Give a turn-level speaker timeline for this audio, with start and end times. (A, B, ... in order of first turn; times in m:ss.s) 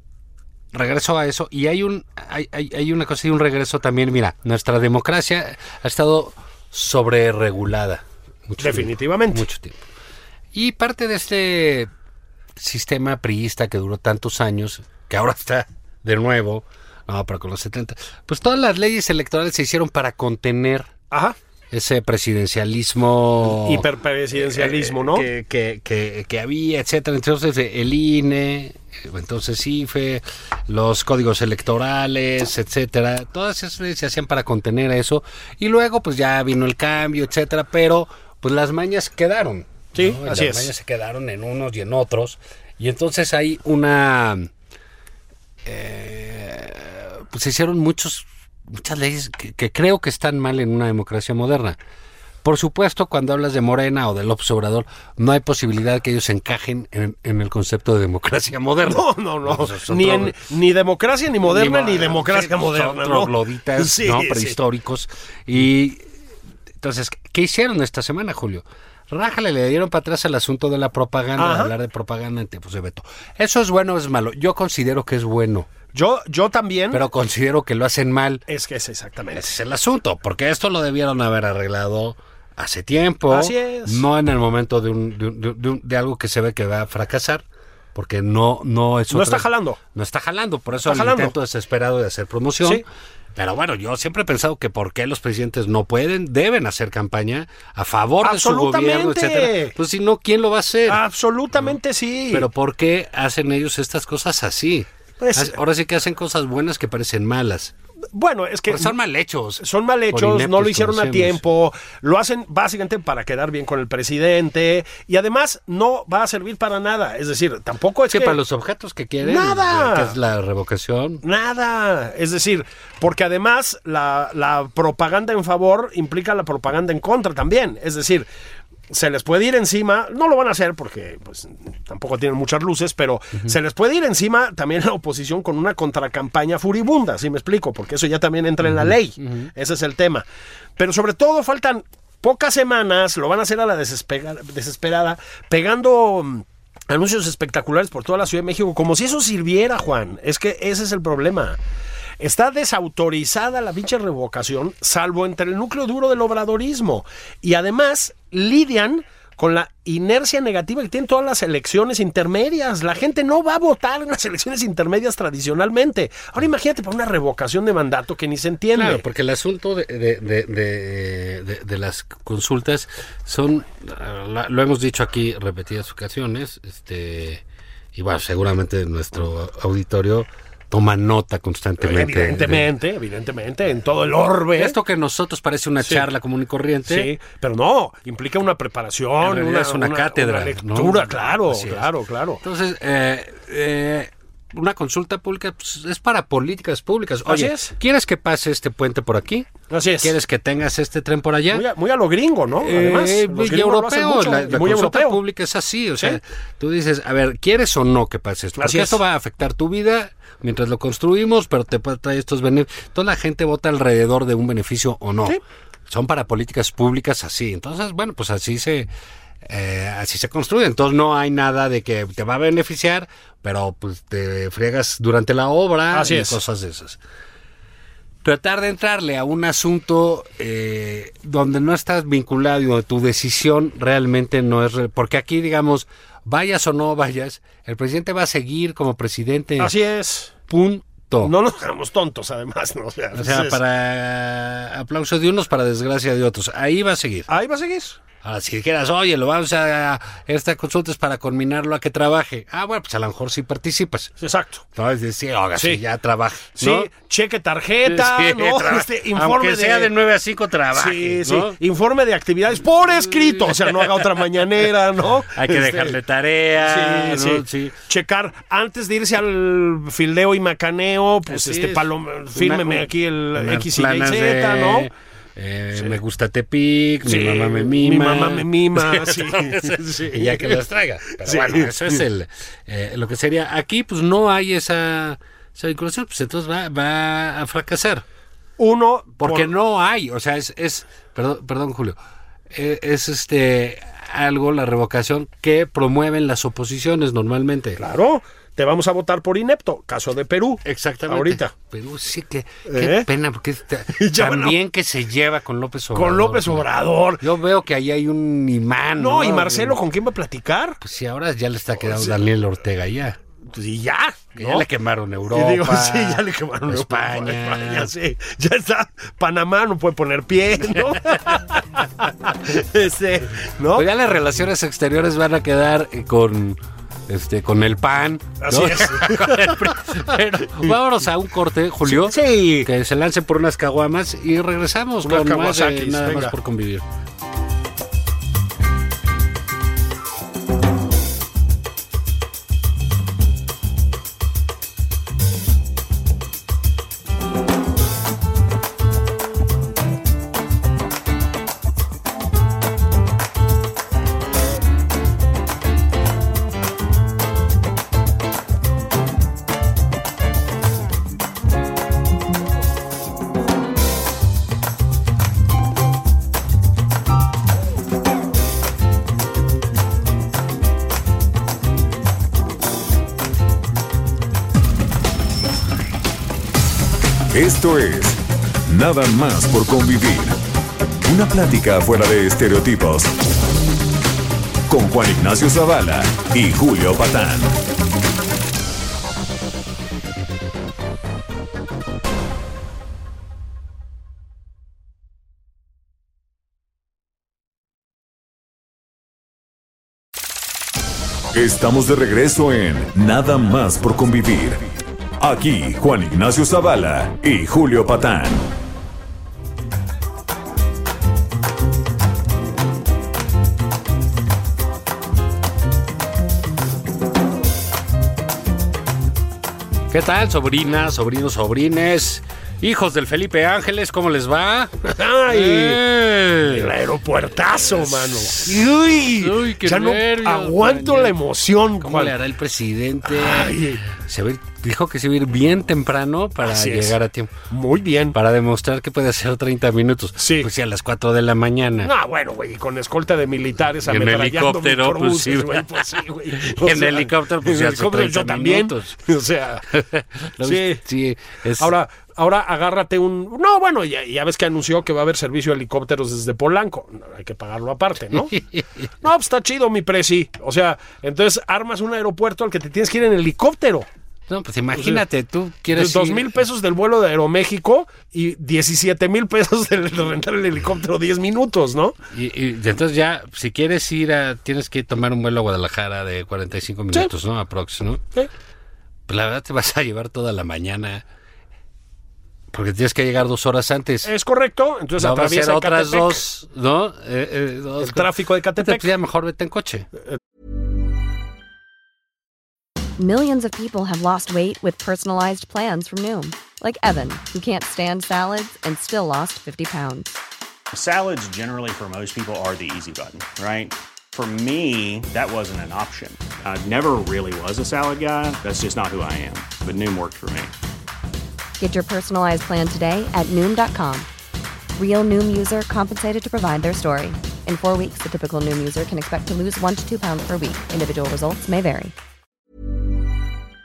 0:00.7-0:09.8 A
0:08.6-0:09.4 B
0:10.5-0:11.9 A
0:12.6-0:20.9 A
0:21.1-0:21.4 B
0:21.7-0:44.5 A
0:23.5-0:25.3 B
0:39.9-0:40.7 B
0:45.6-0:51.8 A
0:52.4-1:00.4 A
0:58.8-1:04.6 B
1:01.4-1:06.1 A
1:06.8-1:15.7 A
1:11.4-1:11.7 B
1:15.9-1:17.0 B
1:16.9-1:18.4 A
1:18.5-1:19.5 B
1:19.3-1:27.4 A
1:23.3-1:24.0 B
1:27.9-1:32.8 A
1:29.1-1:29.8 B
1:30.8-1:31.3 B
1:33.4-1:41.0 A
1:38.2-1:39.7 B
1:40.9-1:42.5 B
1:42.3-1:47.7 A
1:45.2-1:45.6 B
1:48.1-1:48.9 B
1:48.7-1:51.4 A
1:49.6-1:58.4 B
1:58.1-2:01.2 A
1:59.2-2:00.1 B
2:01.2-2:08.3 B
2:08.9-2:20.2 B
2:18.6-2:19.5 A
2:20.8-2:31.6 B
2:32.2-2:49.0 B
2:48.7-2:57.4 A
2:57.9-3:02.7 A
3:01.8-3:04.8 B
3:04.6-3:07.1 A
3:06.8-3:12.4 B
3:09.2-3:21.6 A
3:17.2-3:17.7 B
3:19.7-3:20.1 B
3:21.5-3:25.2 B
3:22.6-3:38.9 A
3:28.6-3:29.0 B
3:39.4-3:47.0 A
3:45.9-3:46.4 B
3:48.2-3:59.7 A
3:59.6-4:00.4 B
4:00.5-4:01.3 A
4:01.2-4:03.6 B
4:03.1-4:07.3 A
4:07.3-4:08.0 B
4:08.2-4:14.1 A
4:14.2-4:14.6 B
4:14.8-4:16.9 A
4:15.6-4:15.8 B
4:16.6-4:19.9 B
4:17.8-4:21.6 A
4:20.7-4:26.0 B
4:23.3-4:23.8 A
4:25.3-4:27.8 A
4:26.6-4:34.9 B
4:31.3-4:48.0 A
4:37.0-4:40.6 B
4:41.2-4:42.0 B
4:48.6-4:49.5 B
4:49.2-4:52.0 A
4:52.5-4:57.8 A
4:57.8-5:01.5 B
5:00.6-5:06.7 A
5:02.6-5:03.1 B
5:03.9-5:04.6 B
5:05.9-5:07.2 B
5:07.2-5:09.8 A
5:09.0-5:10.8 B
5:10.8-5:13.2 A
5:11.8-5:12.2 B
5:13.5-5:14.6 B
5:14.4-5:17.9 A
5:15.3-5:23.9 B
5:23.7-5:36.8 A
5:28.4-5:29.8 B
5:31.8-5:32.7 B
5:35.0-5:36.3 B
6:17.3-6:20.4 C
6:21.0-6:23.2 C
6:24.7-6:27.6 C
6:41.3-6:44.7 C
6:45.2-6:48.5 C
6:59.9-7:06.7 A
7:04.8-7:05.8 B
7:06.4-7:12.1 B
7:07.5-7:11.2 A
7:11.8-7:17.3 A
7:13.1-7:13.8 B
7:16.4-7:17.0 B
7:17.5-7:18.2 B
7:18.1-7:21.9 A
7:20.2-7:20.5 B
7:21.8-7:29.6 B
7:23.8-7:29.0 A
7:29.7-7:31.7 A
7:30.4-7:30.8 B
7:31.6-7:38.4 B
7:38.3-7:38.7 A
7:39.0-7:43.9 B
7:44.3-7:46.4 A
7:44.7-7:45.0 B
7:45.7-7:52.0 B
7:52.1-7:58.0 A
7:59.1-8:01.0 A
8:02.5-8:04.1 A
8:04.0-8:06.2 B
8:05.0-8:09.9 A
8:07.8-8:08.9 B
8:13.0-8:20.1 D
8:20.7-8:30.5 E
8:31.6-8:34.1 D
8:34.8-8:41.9 D